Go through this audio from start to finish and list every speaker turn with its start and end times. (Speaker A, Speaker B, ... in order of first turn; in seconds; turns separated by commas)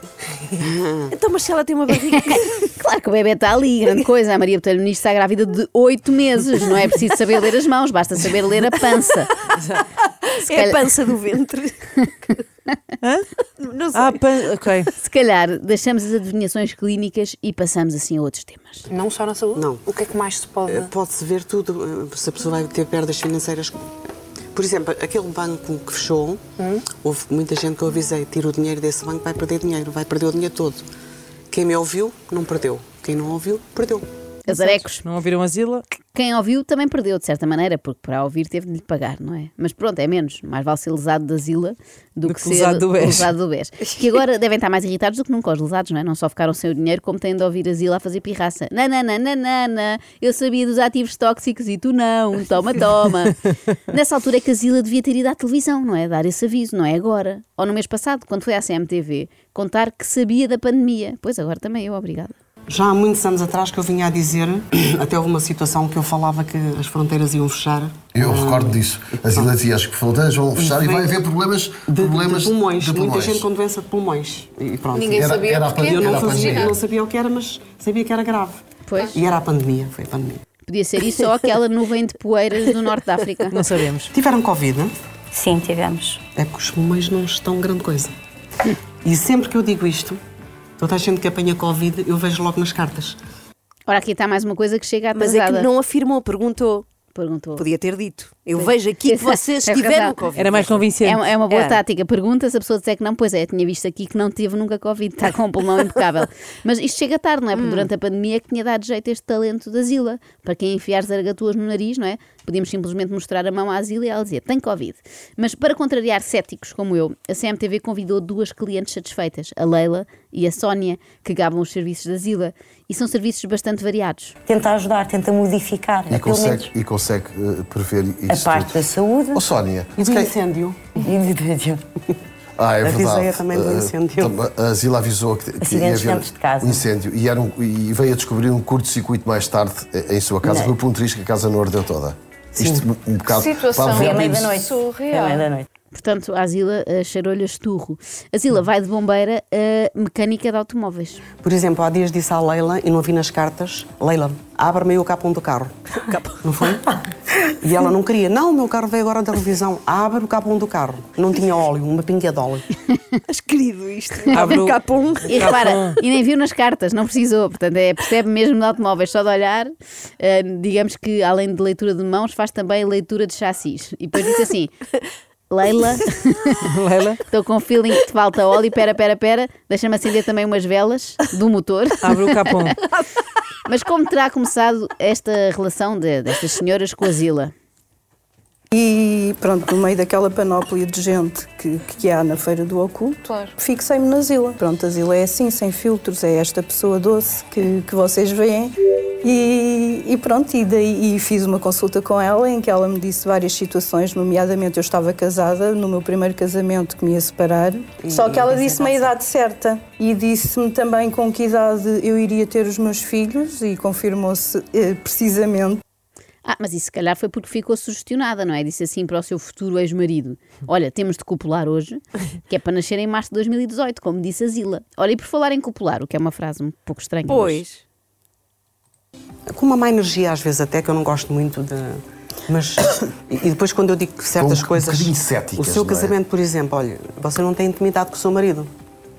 Speaker A: 0.6-1.1, Speaker B: 1.1-2.6, Speaker C: 2.2-9.3, Speaker D: 9.6-9.8, Speaker B: 10.1-12.4, Speaker C: 10.5-10.8, Speaker D: 13.0-13.3, Speaker B: 13.6-14.3, Speaker D: 13.9-14.9, Speaker C: 15.0-18.9, Speaker E: 18.9-20.9, Speaker A: 19.5-19.8, Speaker A: 20.6-23.8, Speaker A: 24.5-26.4, Speaker E: 26.6-26.9, Speaker A: 26.9-30.9, Speaker A: 31.5-34.1, Speaker C: 34.5-35.0, Speaker D: 34.5-35.9, Speaker C: 36.1-62.3, Speaker D: 42.2-43.3, Speaker A: 62.7-69.5, Speaker F: 68.2-73.5, Speaker A: 70.6-71.2, Speaker A: 71.9-80.4, Speaker E: 74.9-76.8, Speaker F: 75.1-76.8, Speaker C: 78.9-79.2, Speaker C: 80.7-83.7, Speaker D: 83.5-84.1, Speaker A: 84.1-84.9, Speaker G: 85.3-86.2, Speaker A: 86.4-88.1, Speaker A: 89.0-90.2, Speaker A: 90.8-93.2, Speaker C: 93.9-95.7, Speaker B: 95.2-96.9, Speaker C: 97.1-97.6, Speaker B: 97.6-100.9, Speaker C: 98.6-100.2, Speaker D: 100.3-101.3, Speaker C: 101.0-124.4, Speaker B: 101.5-101.8, Speaker B: 107.5-107.9, Speaker G: 124.5-126.7, Speaker F: 126.1-130.3, Speaker G: 128.3-129.4, Speaker A: 130.0-131.0, Speaker G: 131.0-131.8, Speaker F: 132.6-144.4, Speaker A: 132.8-134.4, Speaker G: 135.6-136.9, Speaker G: 140.4-140.8, Speaker E: 143.3-145.4, Speaker G: 143.9-145.7, Speaker C: 145.9-151.2, Speaker A: 151.4-155.8, Speaker B: 156.0-156.4, Speaker A: 156.4-162.7, Speaker B: 163.3-165.6, Speaker D: 164.3-166.0, Speaker C: 165.3-174.7, Speaker C: 175.5-176.6, Speaker D: 176.7-177.2, Speaker C: 177.3-182.7, Speaker D: 182.0-182.8, Speaker C: 183.7-187.5, Speaker H: 188.7-215.8, Speaker A: 208.0-209.1, Speaker C: 216.4-227.6, Speaker B: 227.3-227.8, Speaker A: 229.5-238.7, Speaker F: 234.4-236.2